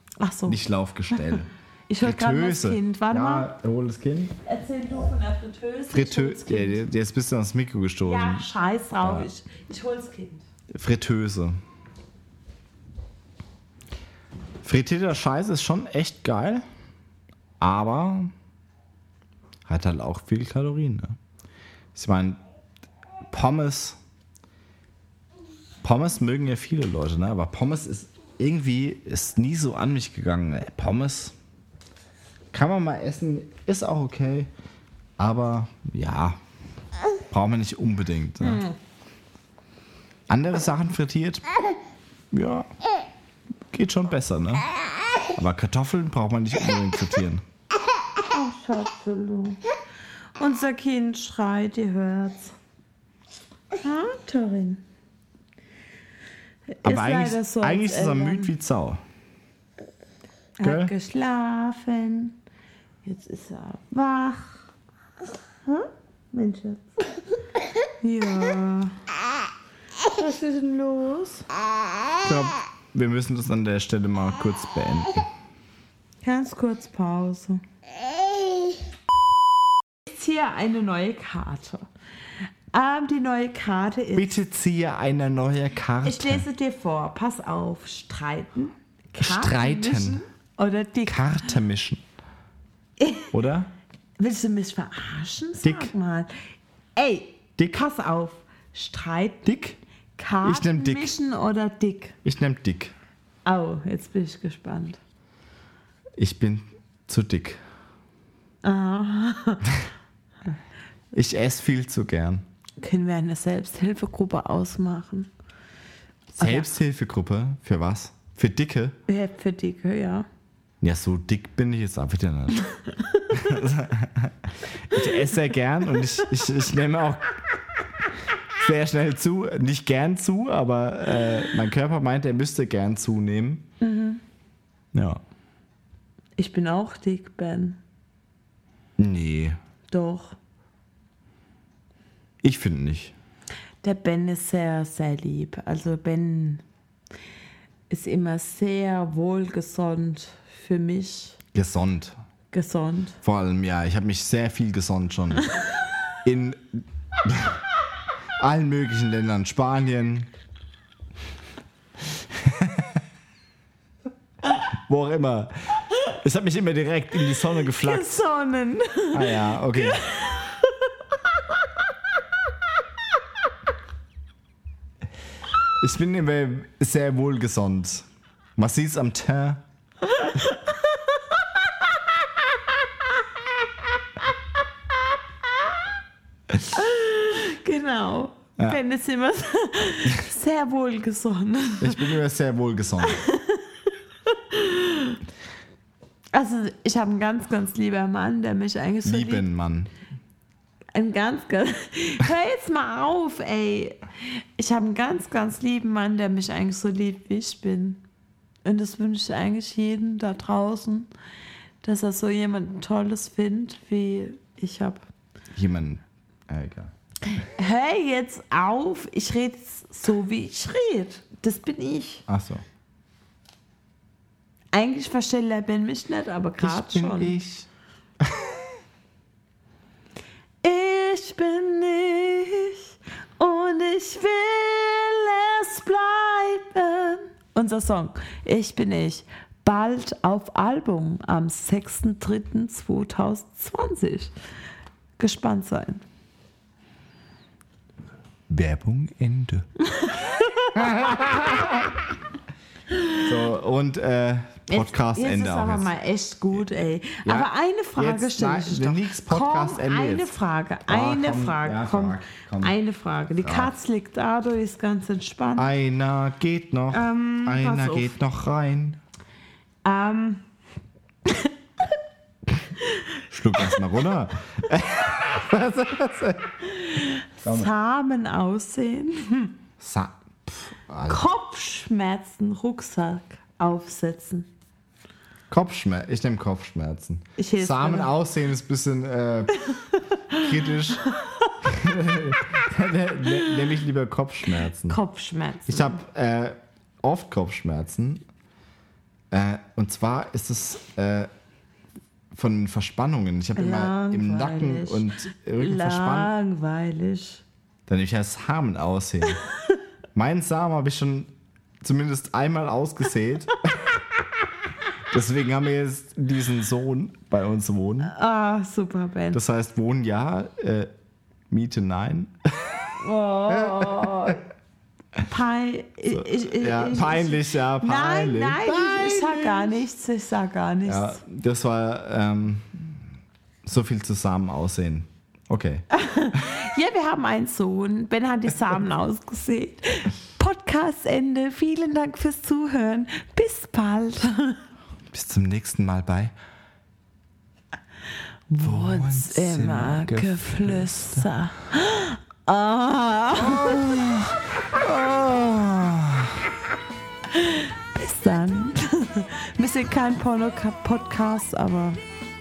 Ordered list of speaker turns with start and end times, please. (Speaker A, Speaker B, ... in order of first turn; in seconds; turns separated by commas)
Speaker A: 0.2-3.5, Speaker B: 0.5-1.5, Speaker B: 2.0-4.3, Speaker A: 4.4-6.8, Speaker B: 5.9-8.5, Speaker A: 8.0-10.4, Speaker B: 9.0-9.3, Speaker B: 10.7-11.6, Speaker B: 14.6-16.6, Speaker B: 17.6-18.3, Speaker B: 19.6-21.1, Speaker B: 21.9-22.4, Speaker B: 23.3-24.0, Speaker B: 25.8-31.3, Speaker B: 32.5-34.5, Speaker B: 35.2-36.4, Speaker B: 37.3-38.6, Speaker A: 38.4-38.7, Speaker B: 40.3-41.5, Speaker B: 42.3-42.7, Speaker B: 43.7-44.6, Speaker B: 45.4-47.4, Speaker A: 48.3-49.6, Speaker A: 50.4-52.5, Speaker A: 53.8-54.8, Speaker A: 56.8-58.5, Speaker B: 56.8-59.0, Speaker A: 60.6-62.4, Speaker B: 60.6-60.9, Speaker A: 63.0-64.7, Speaker A: 65.7-67.2, Speaker A: 68.0-69.0, Speaker A: 70.0-71.5, Speaker B: 72.2-75.3, Speaker A: 76.2-77.6, Speaker A: 80.0-81.9, Speaker A: 82.7-84.3, Speaker B: 84.1-86.5, Speaker A: 86.0-91.6, Speaker B: 89.2-90.2, Speaker B: 91.1-92.0, Speaker A: 93.0-93.3, Speaker B: 93.3-93.7, Speaker A: 94.2-96.3, Speaker B: 95.6-95.9, Speaker A: 97.0-99.5, Speaker B: 97.6-97.8, Speaker B: 99.4-99.8, Speaker A: 100.2-102.2, Speaker B: 100.4-101.1, Speaker B: 102.2-102.9, Speaker A: 103.4-105.0, Speaker B: 106.2-107.6, Speaker A: 108.6-109.7, Speaker B: 111.1-112.4, Speaker A: 112.8-115.3, Speaker A: 116.3-116.7, Speaker B: 116.4-119.0, Speaker A: 119.1-120.3, Speaker B: 120.8-122.6, Speaker A: 122.8-123.5, Speaker B: 123.3-127.3, Speaker B: 128.6-133.7, Speaker A: 133.8-134.2, Speaker B: 134.9-135.2, Speaker A: 136.4-137.8, Speaker B: 139.0-139.6, Speaker A: 139.9-140.4, Speaker B: 142.4-143.1, Speaker A: 143.8-146.6, Speaker A: 147.9-151.4, Speaker B: 151.5-152.2, Speaker A: 152.5-153.2, Speaker B: 153.2-155.5, Speaker B: 156.2-157.6, Speaker B: 158.4-160.3, Speaker B: 162.3-163.0, Speaker B: 164.9-168.2, Speaker A: 167.5-171.3, Speaker B: 169.1-170.0, Speaker B: 175.8-178.1, Speaker B: 178.6-179.6, Speaker A: 180.1-181.6, Speaker A: 186.7-192.1, Speaker B: 191.8-193.2, Speaker A: 193.0-193.7, Speaker A: 194.3-195.2, Speaker A: 196.3-199.4, Speaker B: 199.0-199.9, Speaker A: 200.9-208.0, Speaker A: 208.6-211.1, Speaker A: 211.8-215.0, Speaker B: 215.5-216.9, Speaker A: 217.3-222.2, Speaker B: 222.3-222.6, Speaker A: 224.7-227.3, Speaker B: 226.6-227.7, Speaker B: 228.2-228.6, Speaker A: 230.6-244.3, Speaker A: 245.2-246.0, Speaker B: 248.5-249.7, Speaker A: 249.9-250.9, Speaker B: 250.7-251.9, Speaker B: 253.2-255.9, Speaker A: 254.7-265.7, Speaker B: 257.2-260.3, Speaker B: 260.9-262.7, Speaker B: 263.4-263.7, Speaker B: 265.6-269.0, Speaker A: 266.9-268.1, Speaker A: 269.8-270.4, Speaker B: 273.3-276.5, Speaker A: 276.7-279.5, Speaker B: 277.4-277.7, Speaker B: 279.8-281.2, Speaker A: 281.1-284.5, Speaker B: 285.5-289.7, Speaker A: 287.4-288.1, Speaker A: 289.6-291.6, Speaker B: 290.3-291.0, Speaker B: 291.6-295.0, Speaker A: 293.3-293.6, Speaker A: 294.9-296.0, Speaker B: 295.7-298.2, Speaker B: 299.3-301.3, Speaker B: 302.3-306.3, Speaker A: 303.6-307.4, Speaker B: 307.9-309.4, Speaker B: 310.1-311.3, Speaker B: 311.8-313.8, Speaker B: 315.1-318.1, Speaker A: 318.0-319.4, Speaker B: 319.3-320.9, Speaker B: 321.5-322.9, Speaker A: 323.0-324.4, Speaker B: 323.5-324.4, Speaker A: 325.2-331.2, Speaker B: 326.1-329.8, Speaker B: 330.8-333.0, Speaker B: 333.6-335.9, Speaker A: 335.9-344.6, Speaker B: 345.1-346.3, Speaker A: 348.5-353.9, Speaker B: 348.6-351.3, Speaker B: 353.4-356.5, Speaker A: 357.3-362.0